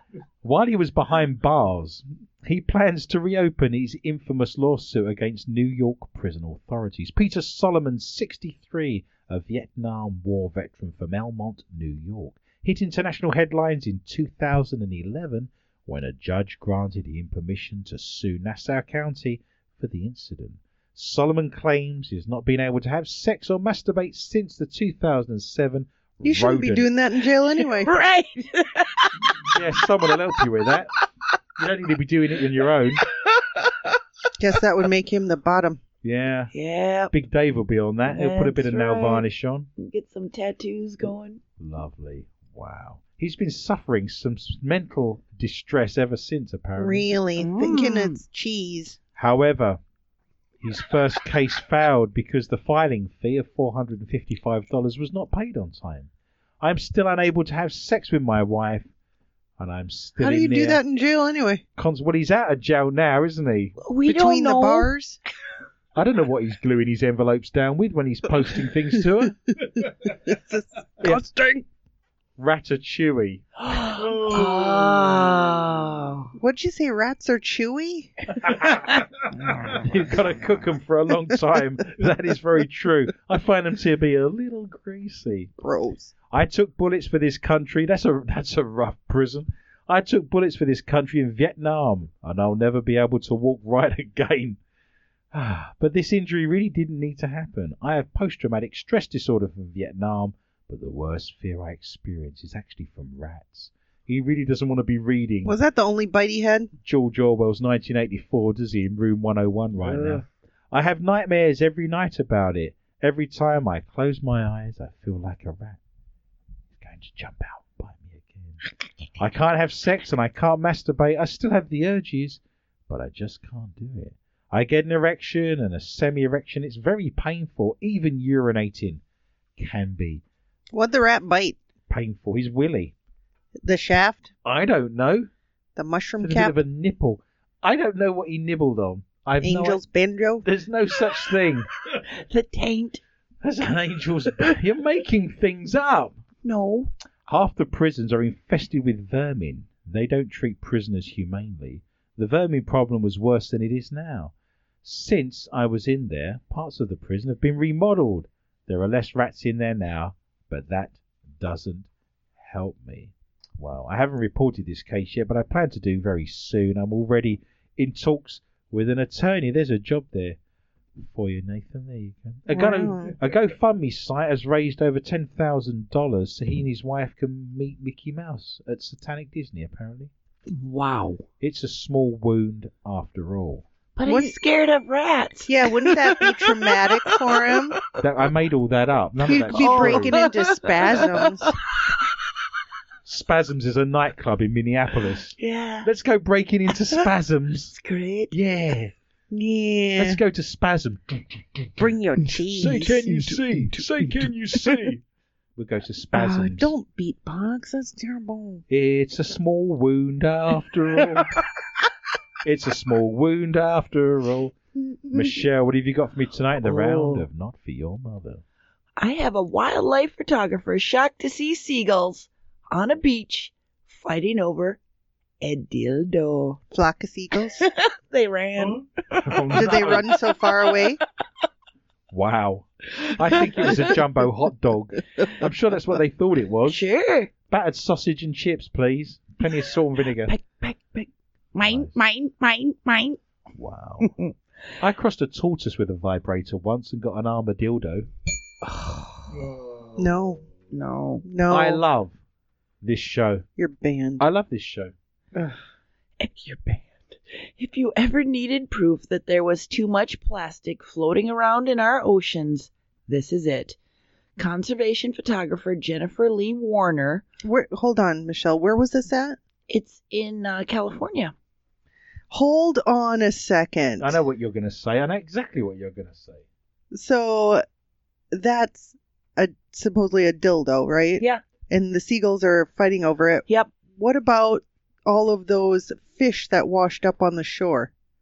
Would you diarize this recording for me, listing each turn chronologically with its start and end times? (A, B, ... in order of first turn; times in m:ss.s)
0:00.4-0:26.9 A
0:26.2-0:27.9 B
0:27.7-0:29.6 C
0:29.4-0:30.9 A
0:31.6-0:33.0 A
0:33.1-0:33.9 C
0:34.4-0:35.8 B
0:36.0-0:36.5 A
0:36.5-0:37.1 C
0:37.1-0:39.7 A
0:38.1-0:39.2 C
0:39.8-0:41.4 C
0:41.6-0:47.1 A
0:46.8-0:49.0 B
0:47.4-0:48.2 C
0:49.2-0:49.8 A
0:50.6-0:56.1 A
0:56.6-0:58.9 A
0:59.6-1:00.8 A
1:00.2-1:01.6 B
1:01.8-1:03.8 A
1:03.8-1:04.9 C
1:04.0-1:05.2 B
1:06.0-1:09.4 A
1:10.2-1:11.6 B
1:12.4-1:13.4 A
1:13.6-1:16.3 C
1:13.8-1:15.6 D
1:16.4-1:18.1 B
1:18.5-1:18.8 A
1:19.4-1:19.8 C
1:19.7-1:25.5 A
1:25.6-1:26.1 B
1:26.3-1:34.6 A
1:35.3-1:45.6 A
1:45.4-1:46.7 B
1:46.8-1:55.8 A
1:49.8-1:50.2 D
1:56.7-1:58.6 A
1:59.2-2:09.0 A
2:09.6-2:10.2 A
2:10.7-2:11.6 B
2:11.9-2:12.9 A
2:13.6-2:14.3 B
2:14.4-2:15.3 A
2:15.8-2:16.6 B
2:16.2-2:19.8 A
2:19.4-2:20.4 B
2:20.4-2:21.7 A
2:22.0-2:23.0 C
2:23.4-2:26.2 A
2:26.4-2:26.9 C
2:27.3-2:41.9 A
2:42.4-2:50.4 A
2:51.0-3:00.1 A
2:52.5-2:53.2 B
3:00.5-3:01.2 C
3:01.4-3:03.6 A
3:04.0-3:07.6 C
3:04.0-3:04.4 B
3:05.5-3:07.8 B
3:08.0-3:10.2 A
3:09.3-3:11.5 B
3:09.5-3:11.9 C
3:13.0-3:17.8 A
3:15.4-3:15.9 C
3:17.7-3:18.3 C
3:18.3-3:18.9 A
3:19.3-3:20.2 B
3:20.0-3:21.7 A
3:21.8-3:23.0 B
3:22.6-3:24.9 D
3:22.6-3:25.0 A
3:25.6-3:26.7 A
3:26.1-3:28.6 B
3:28.7-3:31.3 A
3:32.4-3:34.6 A
3:34.9-3:35.3 B
3:35.1-3:38.4 A
3:36.6-3:37.3 C
3:39.0-3:44.8 C
3:45.4-3:46.6 C
3:46.7-3:47.6 B
3:47.6-3:48.9 C
3:48.6-3:48.8 D
3:49.1-3:50.1 A
3:49.5-3:51.0 B
3:49.7-3:50.8 C
3:52.1-3:56.8 A
3:53.3-3:53.8 C
3:56.7-3:57.3 C
3:57.5-4:00.3 A
4:00.2-4:03.2 C
4:01.6-4:01.9 A
4:03.6-4:04.1 A
4:04.0-4:04.3 C
4:04.8-4:08.1 A
4:08.6-4:09.3 C
4:09.3-4:10.4 D
4:10.0-4:10.4 B
4:10.7-4:11.2 C
4:11.2-4:11.8 B
4:11.5-4:12.2 A
4:12.8-4:13.4 A
4:13.6-4:14.2 B
4:14.2-4:14.9 A
4:16.2-4:23.8 C
4:24.4-4:27.2 C
4:27.4-4:29.4 B
4:29.7-4:31.3 C
4:32.3-4:34.1 B
4:34.0-4:36.4 A
4:36.9-4:37.6 B
4:38.3-4:47.9 B